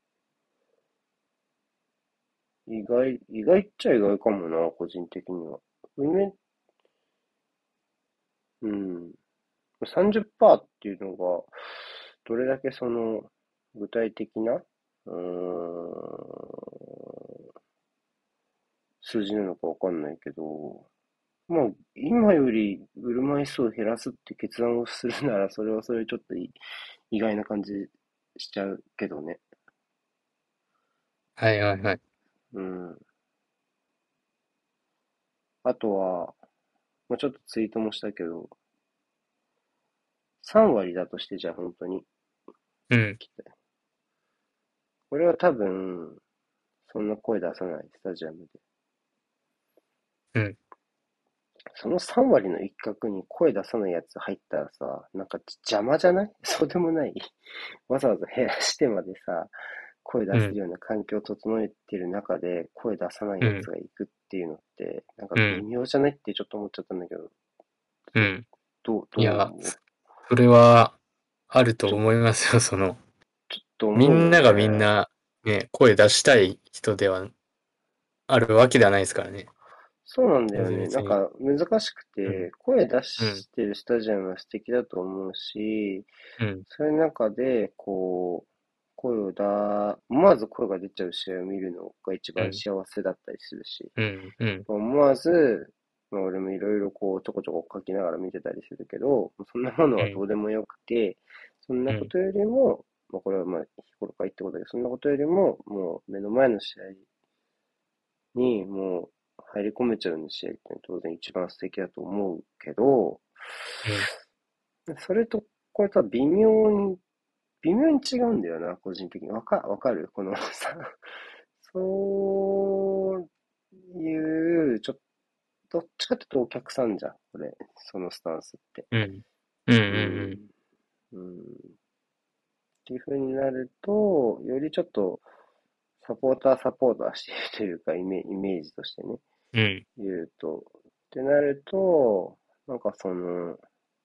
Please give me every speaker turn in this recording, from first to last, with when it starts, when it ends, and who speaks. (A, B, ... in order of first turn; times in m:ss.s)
0:02.7-0:06.3 A
0:08.6-0:09.2 A
0:09.8-0:16.6 A
0:19.0-0:20.9 A
0:21.5-0:26.6 A
0:27.1-0:29.4 A
0:31.4-0:32.0 B
0:32.5-0:33.0 A
0:35.6-0:36.4 A
0:37.1-0:38.5 A
0:40.4-0:42.1 A
0:42.9-0:43.2 B
0:43.2-0:43.5 A
0:45.1-0:46.2 A
0:46.9-0:48.6 A
0:51.7-0:57.4 A
0:57.9-0:59.5 A
1:00.0-1:07.3 A
1:03.4-1:03.7 B
1:05.4-1:05.6 B
1:08.2-1:08.4 B
1:08.8-1:09.8 A
1:09.2-1:09.7 B
1:10.3-1:11.0 B
1:11.5-1:13.0 B
1:13.5-1:14.9 A
1:13.9-1:17.3 B
1:18.3-1:19.5 B
1:20.0-1:26.1 A
1:20.6-1:21.2 B
1:26.4-1:26.6 B
1:26.7-1:33.9 A
1:34.0-1:34.6 B
1:34.7-1:47.0 A
1:48.3-1:54.1 A
1:54.9-1:57.0 A
1:57.6-2:01.0 A
2:01.6-2:03.2 A
2:03.9-2:05.0 A
2:05.7-2:08.9 A
2:08.9-2:10.4 B
2:09.9-2:10.5 A
2:11.1-2:11.7 A
2:12.8-2:15.2 A
2:16.0-2:19.2 A
2:19.5-2:19.8 B
2:20.0-2:23.6 A